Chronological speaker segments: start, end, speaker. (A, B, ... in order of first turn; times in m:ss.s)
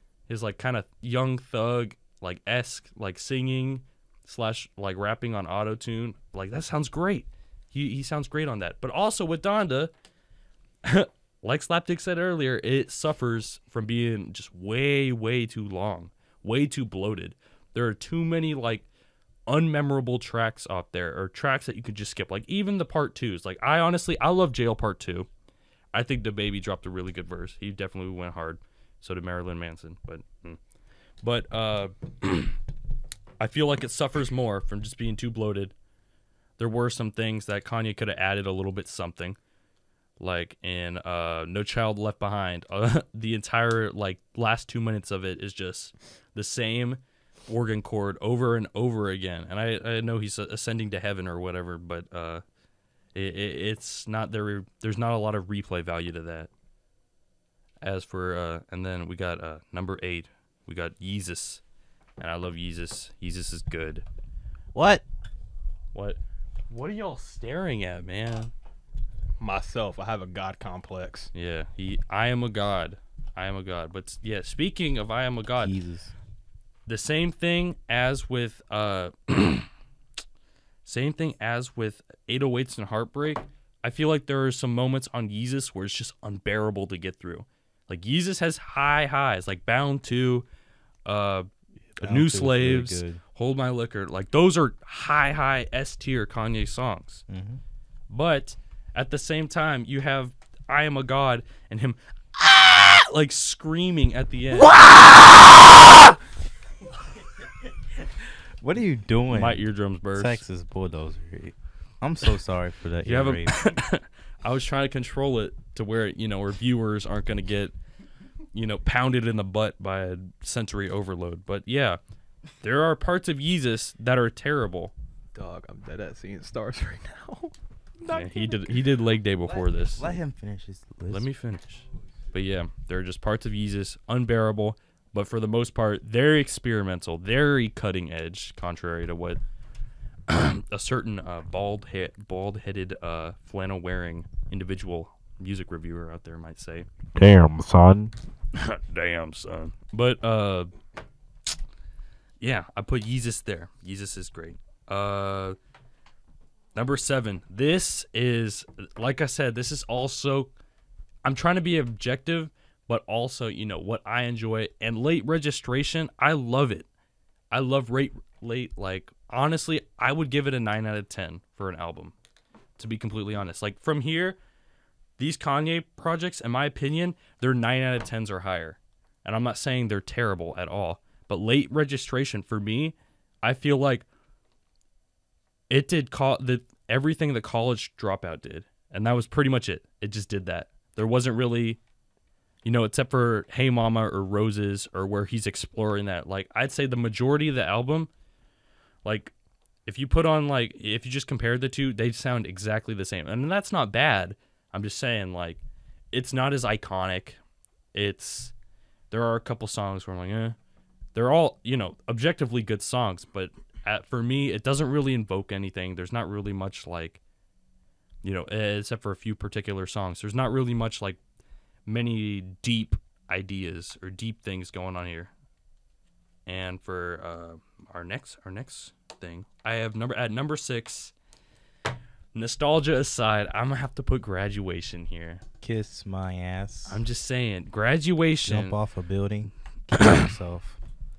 0:00.3-0:09.9 A
0:10.8-0:18.8 A
0:19.5-0:25.3 A
0:25.9-0:30.6 A
0:31.2-0:32.6 A
0:33.4-0:35.7 A
0:36.6-0:39.4 A
0:40.2-0:52.4 A
0:53.1-0:56.5 A
0:57.8-1:01.6 A
1:02.2-1:04.0 A
1:04.7-1:05.0 B
1:05.9-1:08.5 A
1:09.4-1:11.3 C
1:11.3-1:15.8 A
1:15.6-1:16.1 B
1:16.9-1:19.7 A
1:20.8-1:30.4 A
1:31.0-1:31.5 A
1:32.0-1:33.2 B
1:32.0-1:37.2 A
1:37.3-1:37.6 B
1:38.1-1:44.8 A
1:44.6-1:45.8 B
1:48.6-1:49.6 B
1:49.3-1:50.4 A
1:50.1-1:53.7 B
1:53.0-1:57.7 A
1:58.5-2:02.0 A
2:02.6-2:04.9 A
2:05.3-2:08.8 C
2:08.1-2:10.2 A
2:09.5-2:11.2 B
2:11.1-2:19.4 A
2:20.3-2:27.3 A
2:27.1-2:28.1 B
2:28.5-2:30.7 A
2:32.4-2:35.6 A
2:36.7-2:40.5 A
2:41.2-2:46.9 A
2:47.5-2:52.1 A
2:52.8-2:54.4 A
2:55.2-3:04.0 A
3:05.7-3:11.8 A
3:12.6-3:18.1 A
3:19.0-3:19.3 A
3:19.8-3:25.6 A
3:26.1-3:27.4 A
3:27.9-3:28.5 A
3:29.1-3:30.6 A
3:31.1-3:37.2 A
3:38.2-3:41.2 A
3:41.8-3:45.3 A
3:46.4-3:51.1 A
3:52.3-3:55.4 A
3:55.6-3:57.0 B
3:56.8-3:58.8 A
3:58.4-4:00.8 B
3:59.9-4:00.3 A